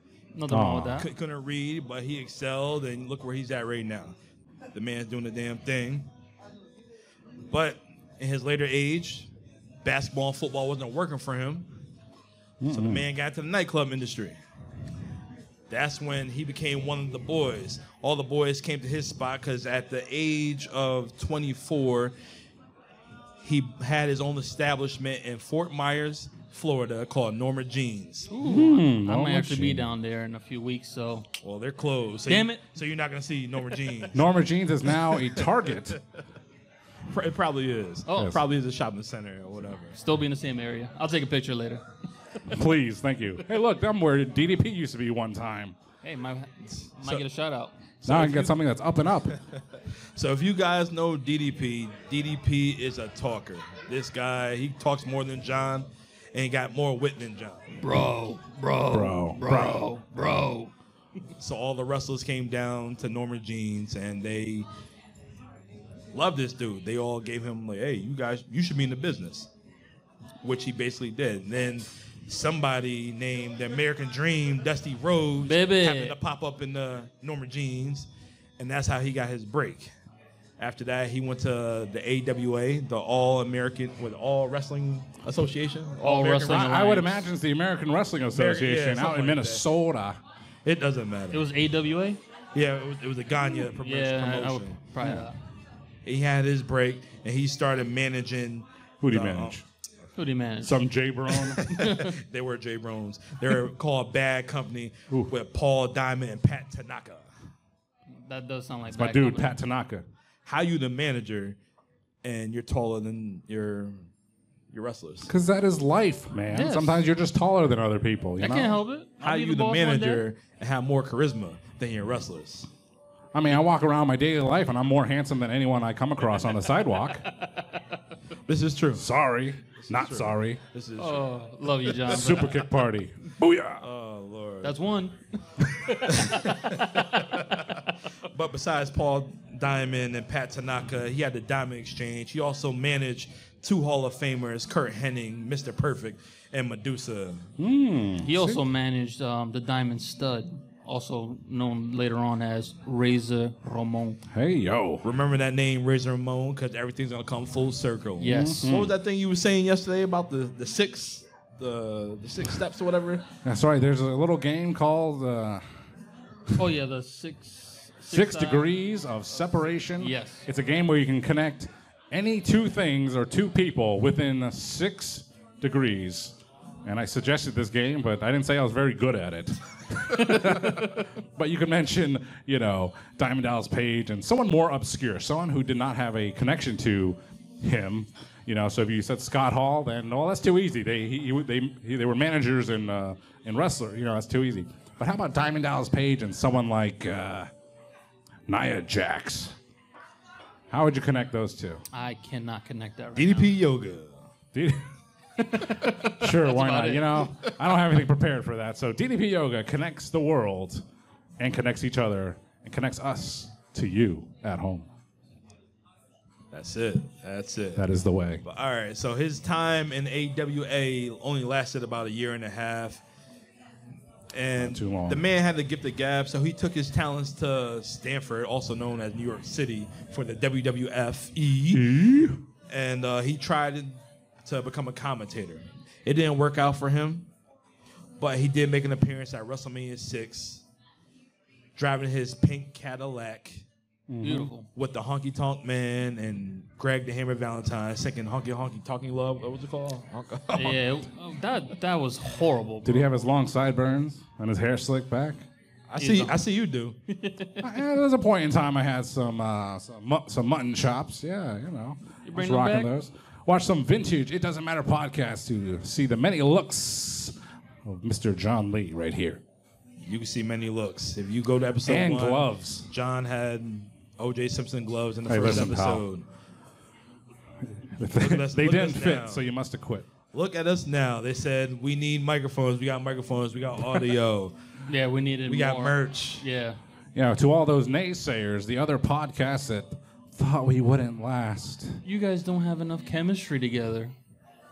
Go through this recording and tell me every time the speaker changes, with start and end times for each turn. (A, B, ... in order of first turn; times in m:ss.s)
0:00.3-0:01.1 A
0:00.5-0:01.0 B
0:01.0-0:04.2 C
0:04.7-0:06.1 C
0:07.5-0:09.3 C
0:09.8-0:11.7 C
0:12.6-0:13.1 B
0:12.7-0:14.4 C
0:15.7-0:22.1 C
0:23.4-0:28.3 C
0:28.3-0:31.3 A
0:28.4-0:29.9 B
0:31.4-0:34.3 C
0:32.3-0:32.6 A
0:34.1-0:36.0 B
0:35.4-0:35.7 C
0:37.1-0:40.0 C
0:38.1-0:38.3 A
0:38.2-0:38.4 B
0:40.0-0:41.8 A
0:42.5-0:45.8 B
0:46.0-0:47.7 A
0:46.6-0:47.2 C
0:48.0-0:49.4 B
0:48.0-0:48.6 C
0:50.2-0:57.7 C
0:57.8-1:00.7 A
0:58.9-0:59.8 B
1:01.4-1:04.7 C
1:06.1-1:09.5 C
1:10.4-1:18.1 C
1:15.4-1:16.2 A
1:18.6-1:19.9 C
1:20.6-1:26.9 C
1:26.0-1:27.2 A
1:26.5-1:30.2 B
1:28.3-1:29.6 C
1:30.6-1:31.4 C
1:31.3-1:32.2 A
1:32.6-1:34.8 C
1:33.8-1:35.4 A
1:35.0-1:35.3 B
1:36.0-1:39.6 C
1:39.0-1:39.6 B
1:40.2-1:42.2 A
1:40.6-1:41.7 B
1:41.6-1:47.3 C
1:48.2-1:49.6 A
1:48.9-1:50.1 B
1:50.5-1:51.6 C
1:52.2-1:54.1 C
1:54.7-1:55.3 C
1:55.3-1:58.8 B
1:56.5-1:57.0 A
1:58.4-2:00.2 A
1:59.2-2:02.7 C
2:03.3-2:07.3 B
2:07.4-2:07.8 A
2:08.5-2:09.0 C
2:09.0-2:10.6 B
2:09.8-2:11.3 C
2:11.0-2:12.7 A
2:12.1-2:13.8 B
2:13.8-2:14.8 C
2:14.6-2:17.7 A
2:16.0-2:27.5 C
2:27.6-2:28.6 B
2:28.2-2:34.2 A
2:34.3-2:35.0 B
2:35.0-2:43.2 C
2:38.2-2:38.7 A
2:38.2-2:38.9 B
2:43.4-2:45.6 B
2:46.6-2:48.7 A
2:48.1-3:17.5 B
2:50.0-2:50.5 A
3:00.2-3:01.0 A
3:18.5-3:19.6 B
3:20.7-3:21.8 B
3:21.9-3:23.5 A
3:23.2-3:24.2 C
3:24.5-3:24.8 B
3:25.4-3:27.3 A
3:26.0-3:30.8 B
3:31.4-3:34.9 B
3:36.5-3:37.9 C
3:37.8-3:38.4 B
3:38.4-3:43.0 C
3:44.3-3:51.9 C
3:44.6-3:45.2 B
3:51.7-3:52.4 B
3:52.7-3:57.3 C
3:58.2-4:00.6 C
4:01.8-4:03.6 C
4:04.1-4:04.5 B
4:04.2-4:04.7 A
4:04.7-4:10.8 C
4:10.5-4:13.1 A
4:12.8-4:15.4 B
4:15.9-4:17.0 C
4:16.0-4:16.4 A
4:17.1-4:17.7 A
4:17.6-4:29.4 B
4:22.2-4:22.9 A
4:30.0-4:36.2 C
4:31.8-4:32.9 B
4:35.3-4:36.0 B
4:37.7-4:40.1 B
4:38.2-4:39.4 C
4:40.3-4:44.6 C
4:44.9-4:46.8 A
4:45.5-4:46.4 C
4:47.2-4:52.0 B
4:52.0-4:54.1 A